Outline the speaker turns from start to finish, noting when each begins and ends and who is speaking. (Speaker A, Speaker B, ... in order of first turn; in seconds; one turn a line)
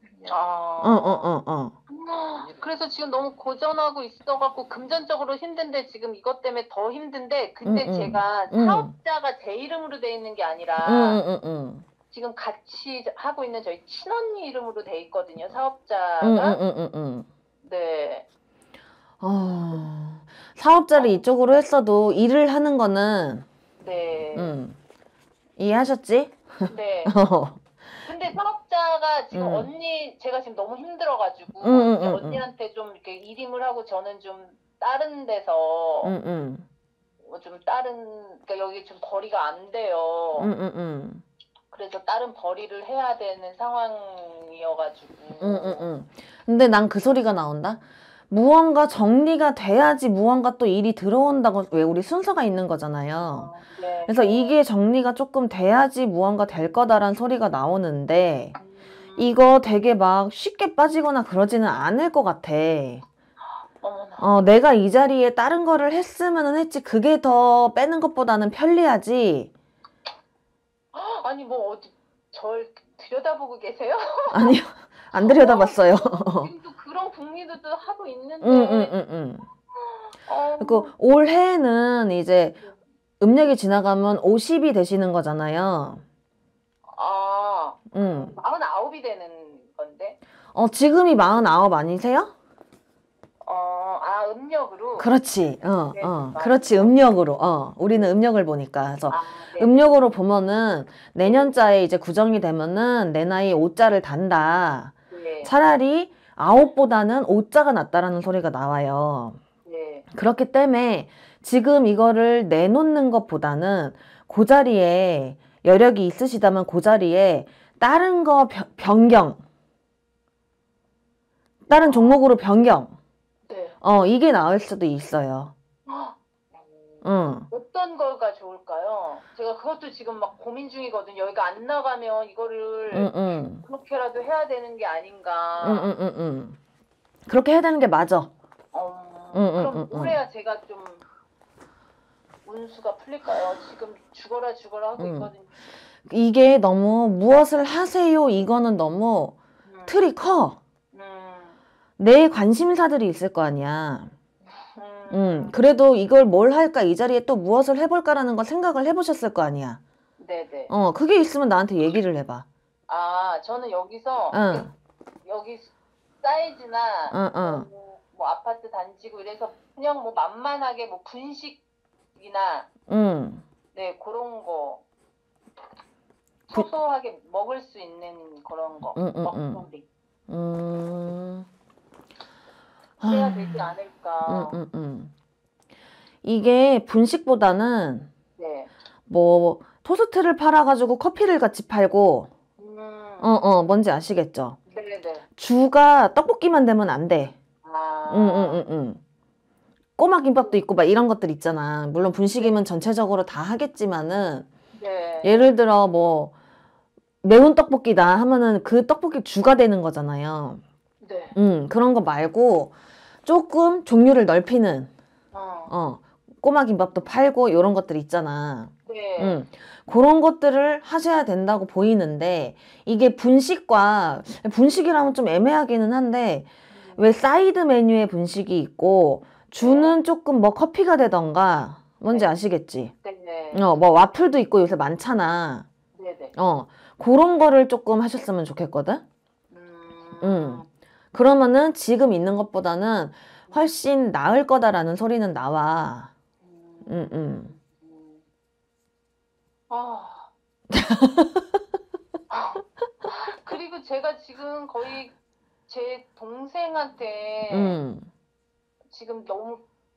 Speaker A: 0.2-1.3
Speaker B: 0.8-1.8
Speaker A: 1.9-11.2
Speaker B: 7.6-8.9
Speaker B: 10.8-11.8
Speaker A: 12.1-16.6
Speaker B: 16.2-17.3
Speaker A: 17.6-18.2
Speaker B: 19.2-23.4
Speaker A: 20.9-21.2
Speaker A: 23.8-24.6
Speaker B: 24.3-24.8
Speaker B: 25.6-27.8
Speaker A: 26.7-27.1
Speaker A: 28.0-36.1
Speaker B: 29.3-29.7
Speaker B: 31.6-32.4
Speaker B: 36.0-36.6
Speaker A: 37.2-40.5
Speaker B: 40.4-41.2
Speaker A: 41.7-45.9
Speaker B: 45.4-53.5
Speaker A: 53.3-54.6
Speaker B: 54.1-58.5
Speaker A: 58.5-59.4
Speaker B: 59.2-63.0
Speaker A: 63.8-64.4
Speaker B: 64.2-69.5
Speaker A: 70.9-74.6
Speaker B: 74.3-76.5
Speaker A: 75.1-78.9
Speaker B: 78.4-79.5
Speaker A: 80.2-80.9
Speaker B: 80.6-82.6
Speaker B: 83.2-86.0
Speaker A: 86.9-90.2
Speaker B: 87.9-88.3
Speaker B: 90.5-92.3
Speaker A: 93.4-95.1
Speaker B: 95.0-109.4
Speaker A: 95.9-96.9
Speaker A: 99.1-99.8
Speaker A: 101.2-101.5
Speaker A: 105.1-105.5
Speaker A: 109.6-110.0
Speaker B: 110.1-119.4
Speaker B: 121.7-123.0
Speaker A: 121.7-122.2
Speaker A: 123.5-123.8
Speaker B: 123.8-125.5
Speaker A: 125.9-135.9
Speaker B: 127.0-127.5
Speaker B: 132.9-133.6
Speaker B: 135.6-136.6
Speaker B: 137.3-138.3
Speaker A: 138.7-141.0
Speaker B: 139.3-140.2
Speaker A: 142.4-145.5
Speaker B: 145.0-145.3
Speaker B: 146.1-149.3
Speaker A: 149.6-150.0
Speaker B: 149.9-150.6
Speaker A: 150.9-151.6
Speaker B: 152.0-154.1
Speaker A: 154.7-155.6
Speaker B: 155.1-159.8
Speaker A: 160.2-160.7
Speaker B: 160.7-162.4
Speaker A: 162.9-164.7
Speaker B: 164.3-164.7
Speaker A: 165.2-171.6
Speaker B: 167.1-167.7
Speaker A: 172.2-172.7
Speaker B: 172.9-173.4
Speaker A: 173.7-174.8
Speaker A: 176.5-179.8
Speaker B: 178.9-179.6
Speaker B: 180.3-181.5
Speaker B: 183.0-183.7
Speaker A: 183.0-184.6
Speaker B: 184.2-185.1
Speaker B: 186.2-188.1
Speaker A: 188.4-188.7
Speaker B: 189.1-192.3
Speaker A: 192.6-193.3
Speaker B: 193.2-194.6
Speaker A: 194.7-195.2
Speaker B: 195.4-197.3
Speaker A: 197.6-198.6
Speaker B: 198.1-199.0
Speaker B: 200.0-204.5
Speaker A: 204.7-205.5
Speaker B: 205.2-206.3
Speaker B: 207.2-210.6
Speaker A: 211.0-211.3
Speaker B: 211.3-214.9
Speaker A: 215.3-215.7
Speaker B: 215.7-232.9
Speaker A: 218.8-219.4
Speaker A: 226.7-227.0
Speaker A: 229.6-230.0
Speaker A: 233.0-233.7
Speaker B: 233.5-235.7
Speaker A: 235.9-236.3
Speaker B: 236.3-239.0
Speaker A: 239.5-240.7
Speaker B: 240.2-246.1
Speaker A: 246.4-248.2
Speaker B: 246.9-247.5
Speaker A: 249.7-250.3
Speaker B: 250.7-251.5
Speaker A: 252.3-255.1
Speaker A: 255.7-257.8
Speaker B: 257.5-258.1
Speaker A: 258.9-259.6